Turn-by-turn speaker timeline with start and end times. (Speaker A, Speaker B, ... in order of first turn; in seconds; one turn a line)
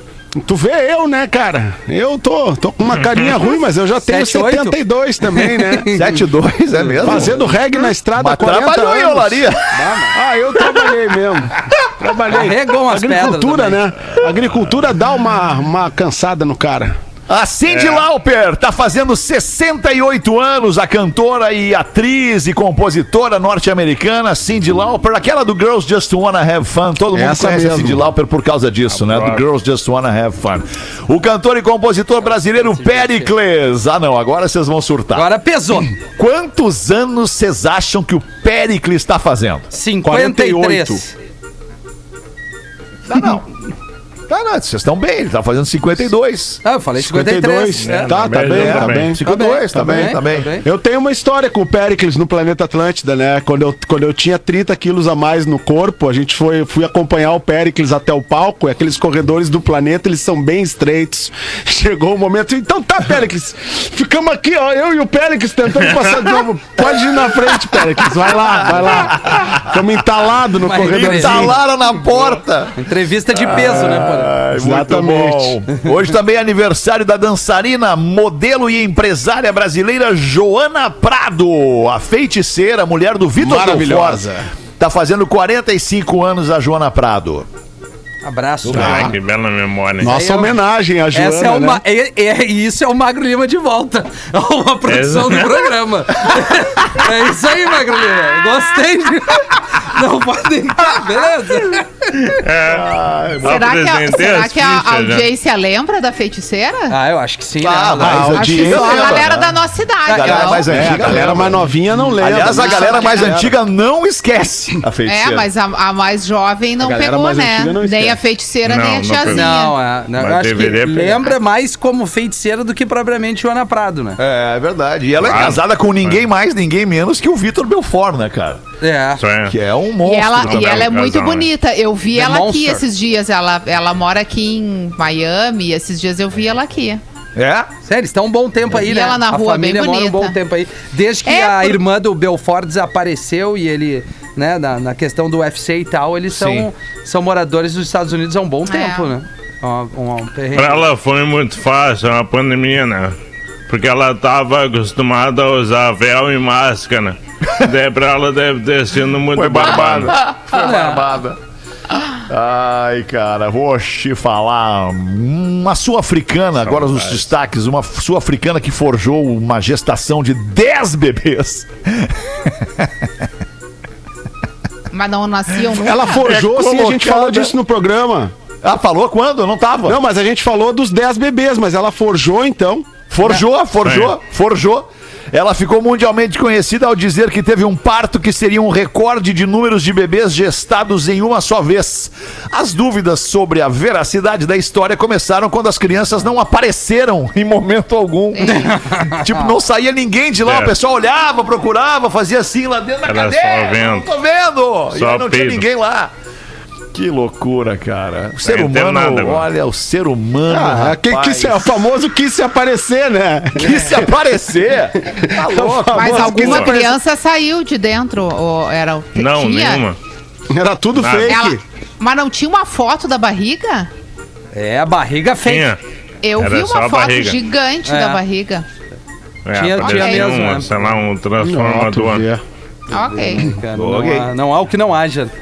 Speaker A: 0.4-5.9
Speaker B: 4.1-6.2
Speaker C: 5.9-9.8
Speaker A: 7.0-9.5
Speaker B: 9.7-10.2
Speaker A: 10.1-17.0
Speaker B: 12.3-13.9
Speaker C: 17.3-35.3
Speaker A: 27.1-28.0
Speaker D: 28.9-29.4
Speaker B: 32.6-33.3
Speaker B: 35.1-35.9
Speaker C: 36.0-39.7
Speaker B: 39.7-41.1
Speaker A: 40.0-41.0
Speaker C: 43.1-43.5
Speaker C: 44.3-46.6
Speaker B: 46.6-48.3
Speaker A: 47.0-71.6
Speaker D: 47.8-49.2
Speaker C: 48.4-50.5
Speaker B: 49.2-50.7
Speaker C: 68.5-69.8
Speaker B: 70.6-74.3
Speaker C: 70.8-87.5
Speaker A: 74.5-75.6
Speaker A: 83.4-84.5
Speaker B: 88.2-89.1
Speaker C: 88.7-89.1
Speaker D: 88.7-90.1
Speaker A: 90.0-91.8
Speaker B: 90.0-90.6
Speaker B: 91.1-102.3
Speaker D: 94.9-95.7
Speaker D: 102.2-102.9
Speaker C: 102.6-103.7
Speaker D: 103.4-105.3
Speaker E: 103.4-107.0
Speaker B: 106.9-109.2
Speaker C: 107.6-115.5
Speaker A: 108.0-109.2
Speaker E: 108.3-111.1
Speaker B: 110.1-110.7
Speaker A: 110.7-113.5
Speaker E: 112.4-113.3
Speaker E: 115.1-119.8
Speaker A: 116.8-118.2
Speaker D: 118.6-119.6
Speaker B: 119.3-124.2
Speaker D: 120.1-121.3
Speaker C: 124.2-128.6
Speaker D: 125.2-126.2
Speaker B: 128.8-129.2
Speaker D: 129.2-129.6
Speaker C: 129.5-130.9
Speaker E: 130.0-137.0
Speaker D: 130.4-131.5
Speaker B: 132.1-132.8
Speaker C: 137.4-137.7
Speaker B: 137.8-150.9
Speaker E: 138.7-140.4
Speaker E: 141.2-141.8
Speaker C: 146.3-146.7
Speaker E: 148.7-149.1
Speaker D: 150.5-153.2
Speaker D: 153.7-160.2
Speaker C: 159.3-161.4
Speaker B: 160.5-161.1
Speaker C: 162.3-173.1
Speaker D: 166.6-167.2
Speaker E: 174.9-176.3
Speaker A: 175.8-178.3
Speaker C: 175.9-177.5
Speaker C: 178.6-180.0
Speaker A: 179.9-182.9
Speaker C: 183.1-206.1
Speaker D: 183.8-184.2
Speaker B: 198.4-199.6
Speaker D: 200.4-200.7
Speaker D: 203.1-204.1
Speaker D: 204.9-205.7
Speaker C: 206.9-211.8
Speaker D: 208.4-209.5
Speaker A: 210.5-213.9
Speaker C: 213.6-216.7
Speaker A: 215.1-217.0
Speaker E: 215.9-219.8
Speaker D: 219.2-220.0
Speaker A: 220.5-221.6
Speaker D: 221.0-221.4
Speaker E: 221.3-223.9
Speaker B: 224.5-225.7
Speaker D: 225.4-225.8
Speaker E: 226.2-228.7
Speaker D: 226.4-227.4
Speaker B: 227.9-228.2
Speaker D: 229.5-232.3
Speaker B: 229.5-231.0
Speaker E: 229.8-230.3
Speaker A: 231.4-232.4
Speaker B: 232.9-235.3
Speaker E: 232.9-233.5
Speaker C: 233.8-234.3